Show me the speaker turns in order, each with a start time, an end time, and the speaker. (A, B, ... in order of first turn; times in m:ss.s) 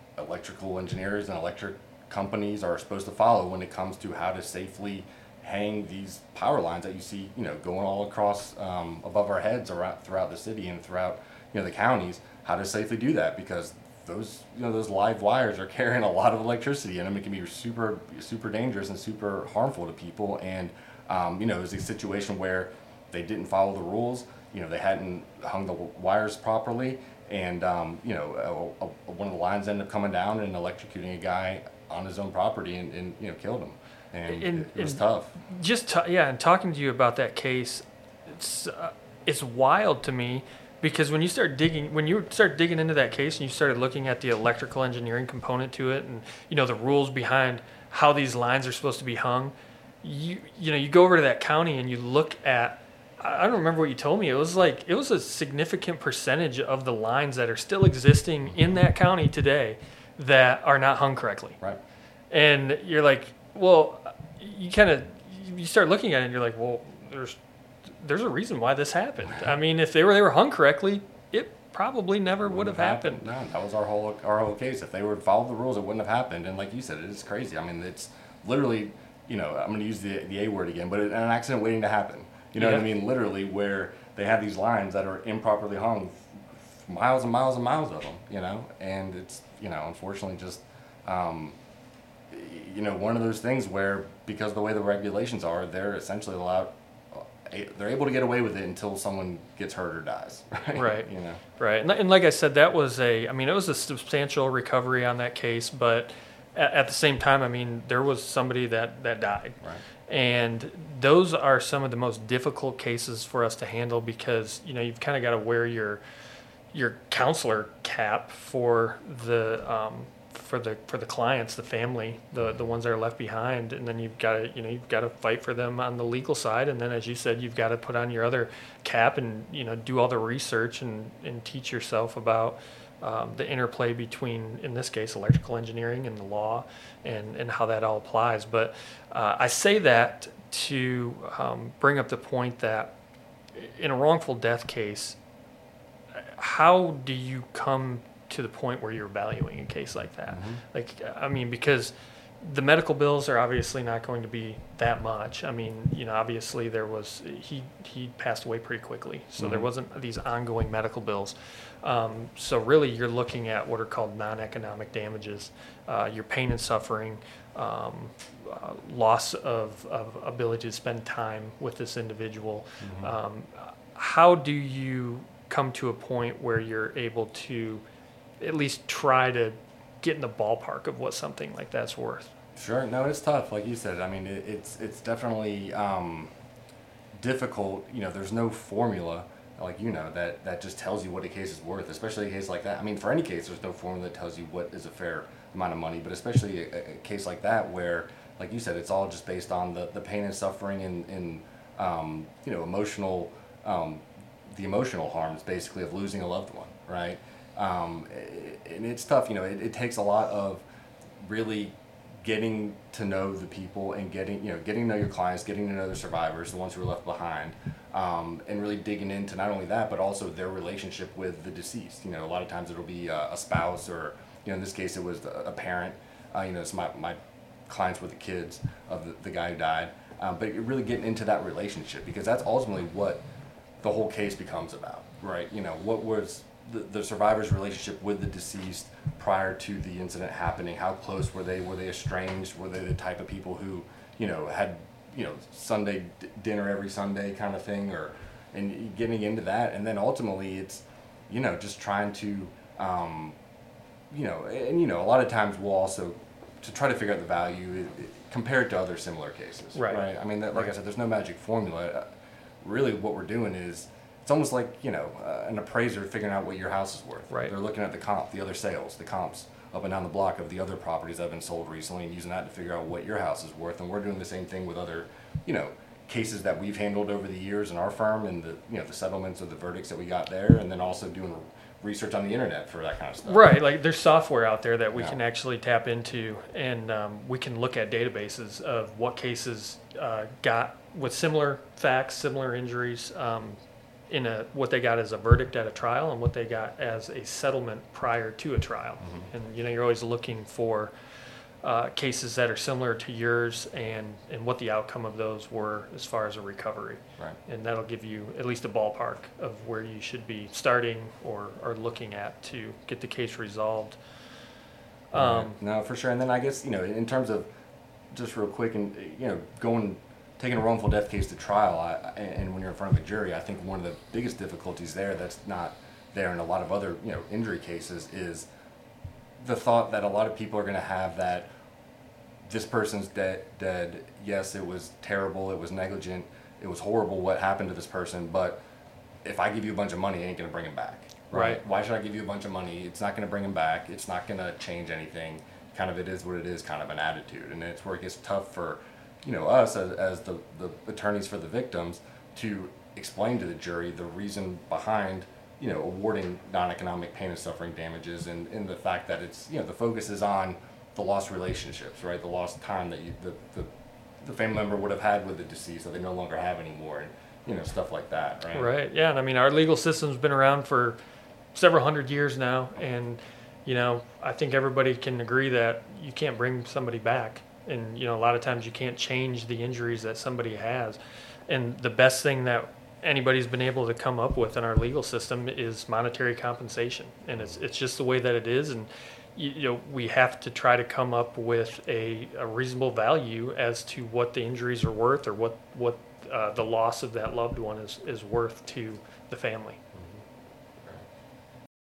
0:00.2-0:35.4 A
0:34.3-1:01.6 B
1:02.3-1:07.4 B
1:08.0-1:13.2 B
1:12.4-1:31.6 A
1:22.6-1:22.8 B
1:32.3-1:41.4 A
1:40.7-1:56.0 B
1:56.7-2:22.9 B
2:02.3-2:02.7 A
2:23.5-2:25.2 B
2:26.1-2:57.8 B
2:30.3-2:30.6 A
2:39.4-2:39.7 A
2:52.8-2:53.1 A
2:58.4-3:02.3 B
3:02.6-3:06.3 A
3:07.2-3:30.6 A
3:31.2-3:53.2 A
3:53.8-4:13.4 A
4:14.1-4:22.1 A
4:19.7-4:20.7 B
4:22.6-4:43.5 A
4:43.2-4:53.6 B
4:44.9-4:45.2 A
4:54.1-5:00.9 B
4:59.0-4:59.3 A
5:01.6-5:14.0 B
5:15.1-5:15.6 B
5:15.1-5:17.5 A
5:18.1-5:28.5 A
5:29.4-5:31.5 A
5:32.4-5:38.6 A
5:39.2-6:03.7 A
5:41.3-5:41.6 B
6:04.2-6:08.7 A
6:08.5-6:11.0 B
6:11.5-6:39.8 B
6:27.3-6:27.6 A
6:39.9-6:40.2 A